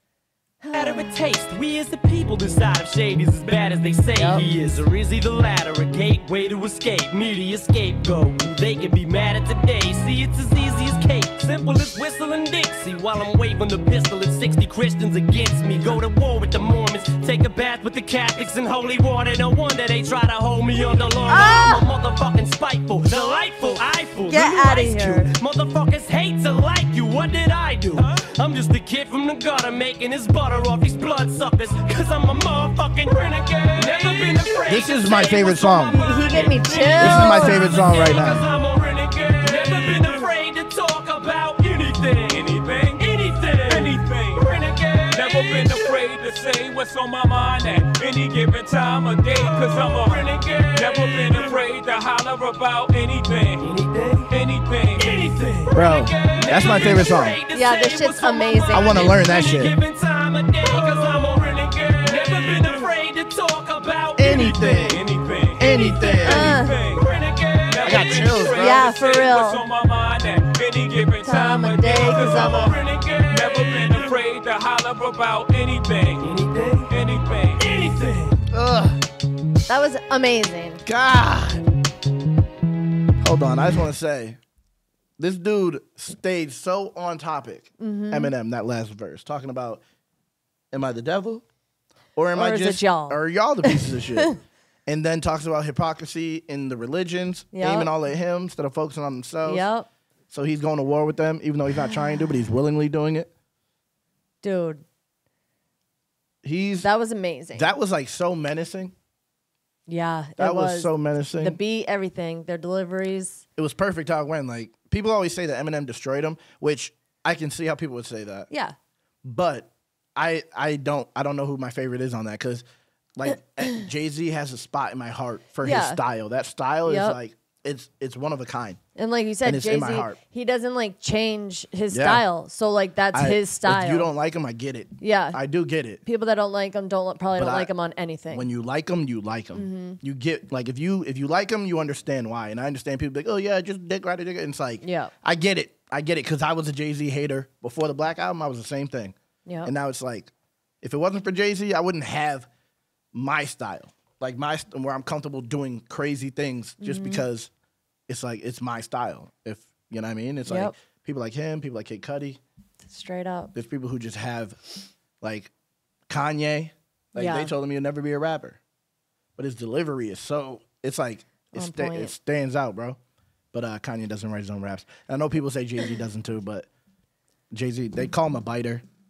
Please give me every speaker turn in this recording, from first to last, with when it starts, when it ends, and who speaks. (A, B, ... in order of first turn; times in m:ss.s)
0:00.6-0:01.2 A
0:00.7-0:45.9 B
0:04.2-0:04.4 A
0:21.3-0:21.8 A
0:24.3-0:25.3 A
0:34.7-0:36.0 C
0:35.9-0:37.7 A
0:37.0-0:38.4 C
0:39.5-0:40.3 D
0:42.3-0:43.0 D
0:43.7-0:44.5 D
0:45.1-0:53.7 D
0:49.4-0:51.6 B
0:53.6-0:54.3 B
0:54.3-0:55.0 D
0:55.0-1:05.0 B
0:55.7-0:57.4 C
0:57.5-0:59.1 A
0:58.7-0:59.7 C
1:01.1-1:01.4 D
1:02.0-1:02.8 D
1:04.2-1:05.0 C
1:04.8-1:07.1 D
1:05.6-1:06.5 C
1:05.6-1:08.5 B
1:06.2-1:06.7 A
1:07.7-1:16.3 D
1:07.8-1:08.8 C
1:08.5-1:09.6 A
1:11.2-1:12.7 A
1:12.0-1:14.2 B
1:16.2-1:16.9 B
1:16.9-1:17.6 D
1:17.6-1:18.4 B
1:18.5-1:19.0 C
1:19.7-1:20.8 A
1:20.8-1:21.7 C
1:23.2-1:24.4 C
1:25.2-1:29.8 C
1:27.8-1:28.3 A
1:30.7-1:31.4 C
1:32.2-1:34.3 C
1:32.3-1:34.4 A
1:34.9-1:39.6 C
1:37.5-1:37.9 A
1:39.4-1:39.9 A
1:40.3-1:43.3 C
1:44.4-1:44.8 A
1:46.4-1:46.9 C
1:46.8-1:47.7 A
1:47.5-1:48.9 C
1:49.9-1:53.4 A
1:50.4-1:51.6 C
1:53.6-1:58.5 C
1:58.5-1:58.7 A
1:59.2-2:02.6 C
2:03.2-2:08.8 C
2:05.6-2:06.0 A
2:06.8-2:07.2 A
2:09.0-2:14.1 A
2:09.4-2:10.2 C
2:11.9-2:12.2 C
2:13.1-2:16.0 C
2:15.0-2:15.4 A
2:16.0-2:18.5 A
2:17.3-2:17.7 C
2:18.3-2:30.3 C
2:19.5-2:20.0 A
2:24.8-2:25.1 A
2:30.8-2:32.5 C
2:33.1-2:37.5 C
2:36.8-2:37.2 A
2:38.1-2:42.4 C
2:40.5-2:40.7 A
2:42.8-2:43.5 A
2:43.5-2:44.6 C
2:45.2-2:45.5 C
2:46.1-2:48.6 C
2:47.2-2:47.5 A
2:49.4-2:53.0 C
2:51.5-2:52.1 A
2:53.5-2:56.7 C
2:57.5-2:58.8 C